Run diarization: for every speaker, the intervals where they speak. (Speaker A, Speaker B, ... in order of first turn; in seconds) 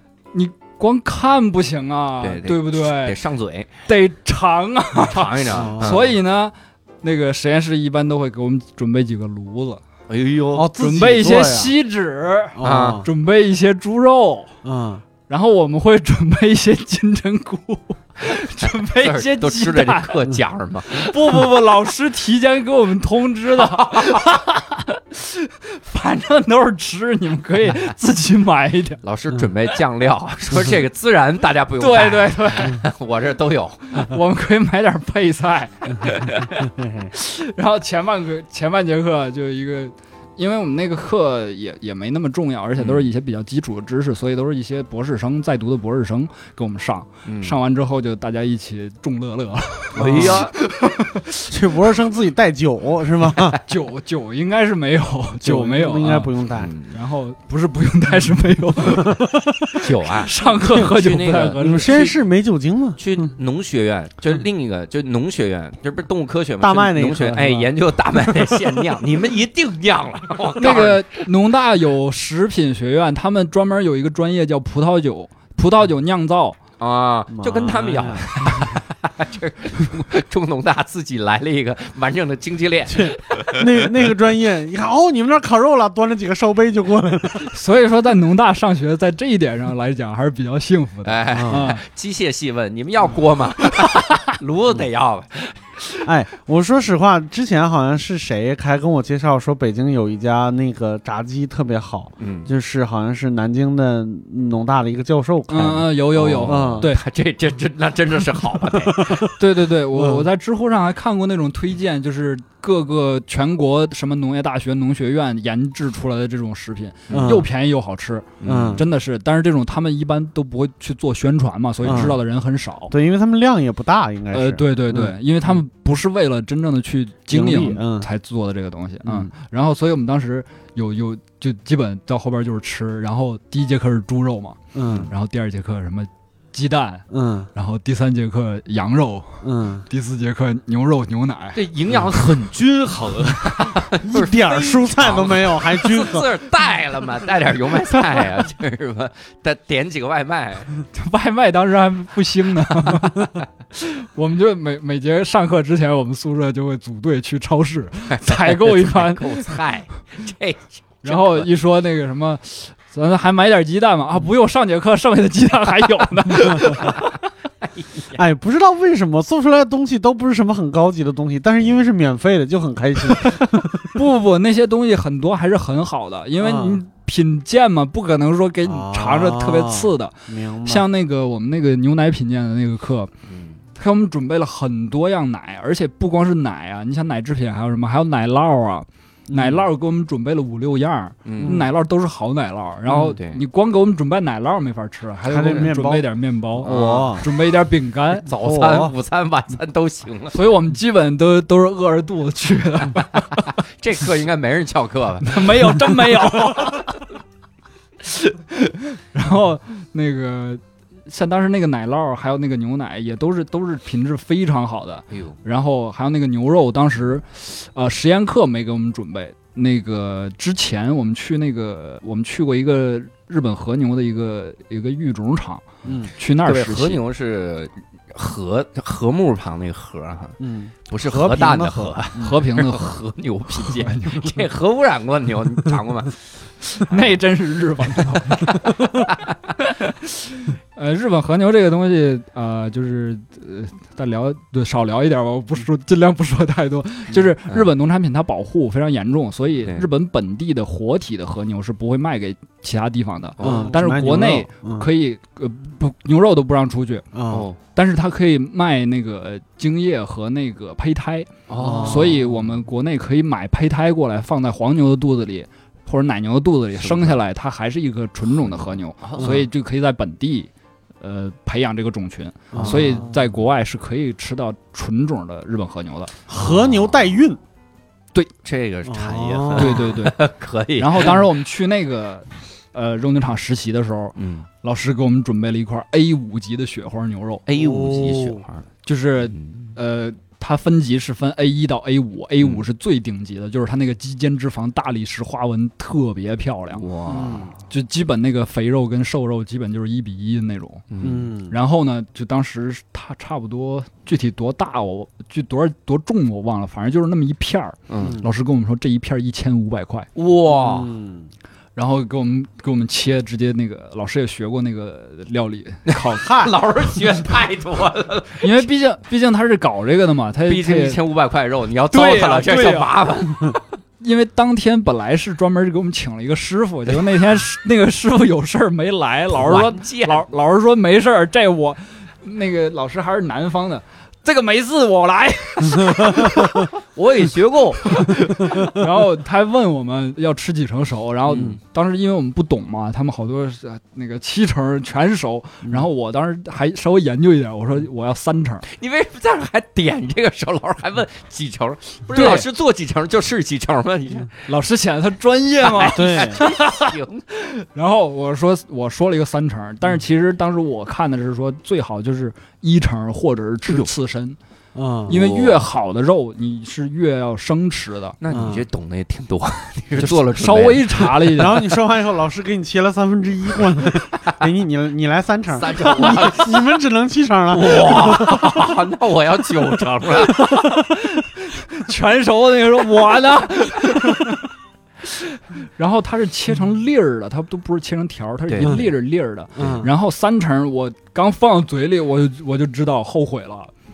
Speaker A: 0.3-3.2, 3.9-9.8, 10.8-14.5, 15.3-20.2, 20.9-29.0, 31.8-32.9, 33.9-36.5, 37.1-51.5, 53.7-62.1, 70.6-76.6, 87.5-91.8, 105.5-107.0, 109.3-122.9, 124.3-141.6, 150.9-159.6, 161.0-167.0, 173.8-183.1, 183.8-198.3, 200.3-203.5, 205.2-207.0, 208.0-227.0, 232.2-233.0, 233.5-234.4, 236.7-239.1, 239.8-257.1, 257.7-270.5, 271.0-276.1, 279.6-280.2, 280.8-287.4, 288.9-296.9, 297.7-300.9, 301.4-310.1, 311.8-316.3, 318.4-321.0, 321.9-322.9, 324.0-336.7, 337.9-348.6, 352.1-352.5, 354.5-364.4, 365.1-368.2, 370.0-371.8, 380.2-384.5, 385.0-393.7
Speaker B: 2.2-3.7, 5.0-6.1, 10.1-10.7, 12.6-13.1, 18.7-21.2, 29.0-33.9, 42.8-43.1, 47.2-47.6, 50.0-50.5, 56.5-57.0, 59.8-62.2, 63.0-71.2, 76.8-83.9, 91.0-95.6, 102.2-102.5, 106.1-109.3, 117.1-117.3, 118.4-118.8, 141.6-150.7, 158.1-161.5, 183.3-183.6, 191.2-191.6, 192.9-193.4, 196.6-197.2, 198.2-200.4, 203.5-205.6, 215.1-215.4, 226.4-236.2, 253.4-253.7, 257.3-257.6, 261.5-262.2, 266.8-267.2, 268.5-269.4, 272.6-273.2, 276.4-277.1, 278.4-281.2, 284.2-284.5, 287.5-288.6, 289.4-289.7, 296.8-297.5, 300.9-301.3, 307.9-308.2, 310.1-310.9, 315.9-318.6, 320.5-323.6, 329.3-330.3, 336.9-337.9, 348.7-354.5, 355.6-357.3, 368.2-371.4, 375.5-376.6, 377.5-380.5, 388.5-388.8
Speaker C: 5.5-6.0, 10.6-11.7, 12.6-13.1, 14.6-15.0, 36.6-37.1, 50.0-50.5, 51.5-53.6, 55.4-56.7, 61.6-63.0, 66.6-67.7, 77.3-78.3, 82.9-87.5, 91.3-91.7, 96.0-105.9, 106.4-106.9, 108.8-109.3, 109.9-110.2, 117.1-117.5, 118.5-118.8, 121.8-122.2, 122.9-125.1, 127.3-128.1, 129.0-129.3, 134.7-135.1, 137.1-137.5, 139.4-139.9, 144.0-146.3, 168.1-173.9, 176.4-176.8, 178.6-180.9, 189.3-189.7, 191.4-191.7, 195.3-196.1, 196.6-197.3, 198.3-198.9, 225.8-226.1, 230.4-232.4, 253.4-254.9, 257.1-257.5, 261.6-262.3, 269.2-269.4, 272.5-273.0, 276.3-277.4, 278.9-280.0, 287.5-288.4, 297.1-297.5, 301.0-301.5, 310.5-311.3, 316.2-316.5, 355.9-356.4, 364.8-365.4, 368.3-368.6, 371.4-378.7, 388.6-388.9, 389.6-389.9